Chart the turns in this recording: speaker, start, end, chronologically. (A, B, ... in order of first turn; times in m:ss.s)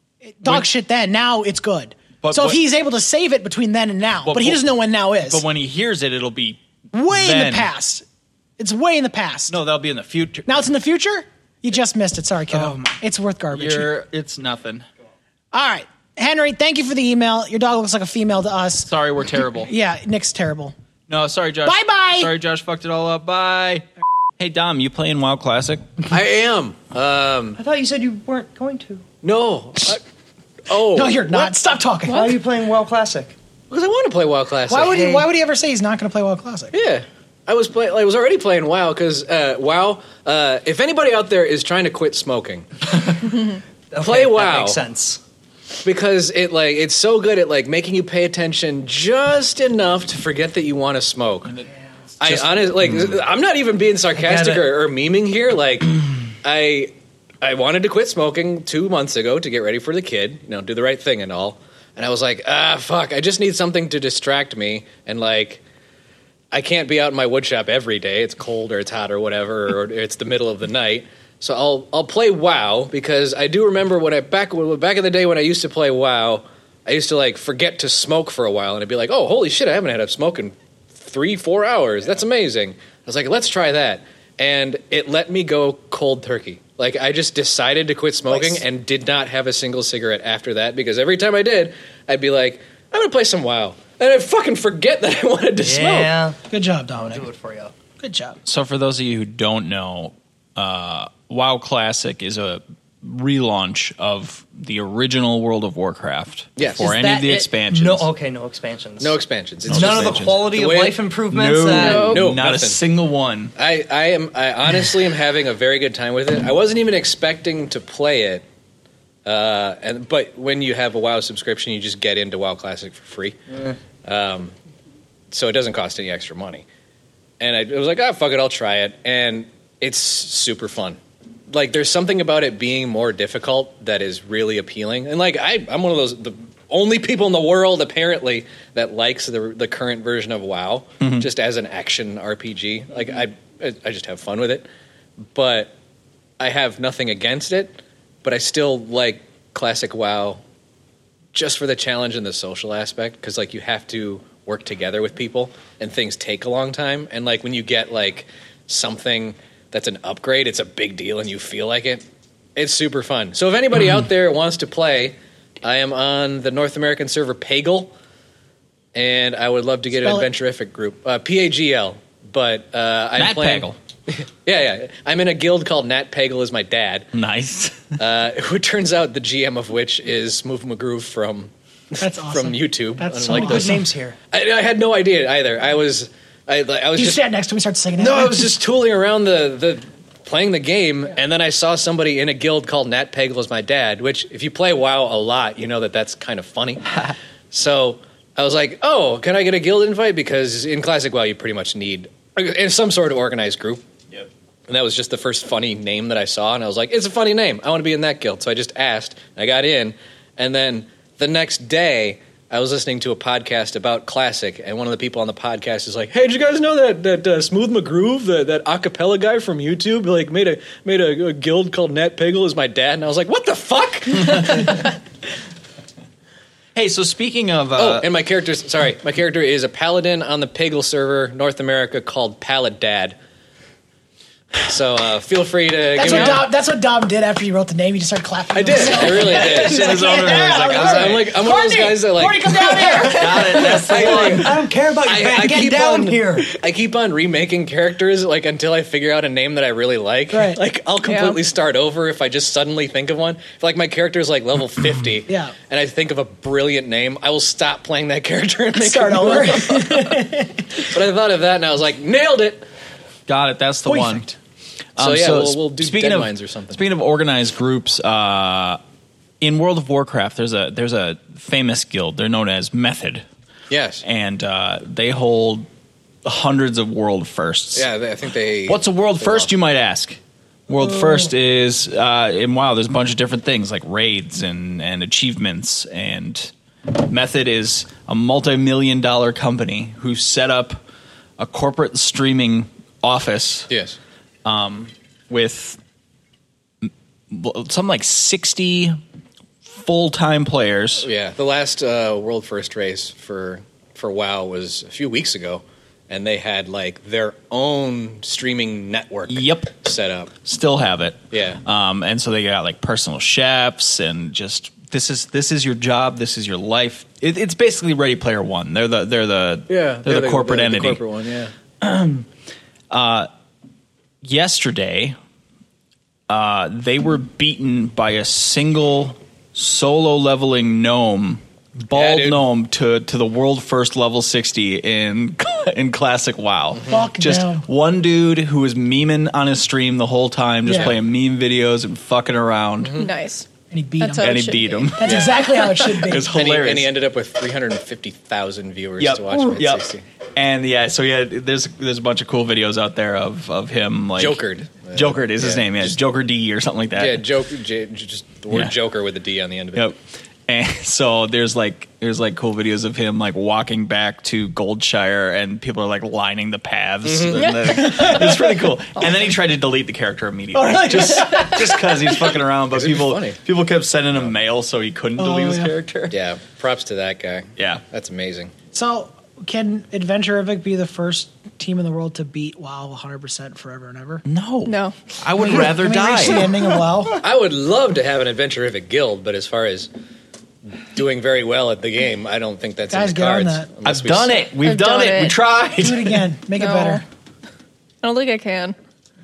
0:00.2-0:05.4 A
0:02.2-0:02.6 B
0:04.2-0:04.6 B
0:05.2-0:06.6 B
0:06.9-0:08.0 A
0:07.1-0:07.7 B
0:08.6-0:09.6 A
0:09.5-0:10.7 B
0:10.5-0:13.9 A
0:12.5-0:12.9 B
0:13.5-0:14.8 B
0:15.5-0:18.9 A
0:18.9-0:19.7 B
0:19.6-0:20.7 A
0:21.1-0:23.8 B
0:21.6-0:22.3 A
0:24.4-0:25.9 B
0:26.0-0:27.6 C
0:27.6-0:29.0 D
0:29.2-0:30.0 C
0:30.7-0:31.5 C
0:30.9-0:32.3 A
0:32.1-0:33.4 D
0:32.1-0:32.4 E
0:33.7-0:35.0 C
0:34.7-0:36.7 A
0:34.8-0:35.3 D
0:36.7-0:42.6 C
0:43.9-0:45.2 D
0:44.0-0:44.8 C
0:45.8-0:51.5 C
0:52.2-0:53.1 B
0:52.2-1:05.6 C
0:54.1-0:54.8 D
1:06.5-1:36.2 C
1:28.3-1:28.6 A
1:35.6-1:36.4 D
1:36.5-1:37.3 A
1:36.9-1:37.7 D
1:38.0-1:38.4 A
1:38.4-1:48.1 B
1:46.6-1:46.9 C
1:46.8-1:52.1 D
1:49.0-1:51.0 C
1:49.7-1:50.4 B
1:51.3-1:53.5 B
1:51.7-1:52.2 E
1:52.0-1:52.8 C
1:53.6-1:58.4 C
1:59.2-2:03.4 C
2:04.0-2:04.5 C
2:05.3-2:06.6 C
2:07.4-2:11.0 C
2:11.5-2:24.7 C
2:21.0-2:21.2 B
2:25.3-2:25.8 C
2:26.4-2:30.4 C
2:31.3-2:42.0 C
2:42.6-2:47.9 C
2:48.9-2:57.1 C
2:53.2-2:53.8 B
2:57.1-2:57.9 B
2:58.0-3:07.2 C
3:02.0-3:03.8 A
3:03.2-3:04.2 D
3:06.9-3:08.5 A
3:08.0-3:17.0 C
3:17.5-3:23.8 C
3:24.7-3:45.0 C
3:46.7-3:48.1 B
3:47.8-3:53.2 C
3:54.6-3:56.5 C
3:56.0-4:03.7 A
3:58.5-4:22.6 C
3:58.9-4:01.3 B
4:02.8-4:06.5 D
4:03.1-4:04.6 B
4:10.3-4:10.6 A
4:11.0-4:11.4 E
4:15.3-4:15.5 A
4:18.8-4:20.8 A
4:23.3-4:24.4 B
4:23.9-4:24.2 A
4:25.0-4:26.8 C
4:25.0-4:28.8 B
4:29.4-4:33.2 B
4:33.7-4:34.0 C
4:34.0-4:35.7 B
4:36.2-4:37.9 B
4:37.7-4:39.5 C
4:38.7-4:40.2 B
4:40.7-4:50.8 B
4:51.4-4:53.7 B
4:53.7-4:54.0 C
4:54.4-4:55.8 B
4:56.8-4:59.0 B
4:59.7-5:01.1 B
5:01.0-5:10.3 C
5:09.3-5:09.7 B
5:10.4-5:21.0 B
5:11.3-5:11.6 C
5:19.7-5:21.5 C
5:21.8-5:22.3 B
5:22.9-5:23.3 B
5:24.2-5:25.2 B
5:26.3-5:43.0 B
5:31.9-5:32.4 C
5:36.7-5:37.0 C
5:36.9-5:37.6 A
5:40.6-5:40.9 A
5:42.8-5:43.1 C
5:42.9-5:43.5 E
5:43.7-5:44.4 A
5:44.0-5:44.9 E
5:44.2-5:46.9 B
5:45.0-5:46.3 A
5:45.0-5:45.4 C
5:46.1-5:50.0 C
5:49.0-5:57.2 B
5:54.2-5:55.9 C
5:56.9-5:59.9 C
5:59.7-6:16.1 B
6:07.0-6:07.6 C
6:07.4-6:08.2 E
6:10.5-6:11.8 A
6:12.7-6:13.4 C
6:15.2-6:15.7 A
6:16.1-6:18.5 C
6:18.7-6:24.2 A
6:24.2-6:26.6 B
6:24.6-6:24.9 E
6:25.4-6:27.2 A
6:27.2-6:29.9 C
6:30.9-6:34.4 C
6:32.9-6:33.7 A
6:33.8-6:36.2 B
6:34.6-6:35.4 E
6:35.8-6:37.0 A
6:36.6-6:37.0 E
6:38.0-6:38.8 E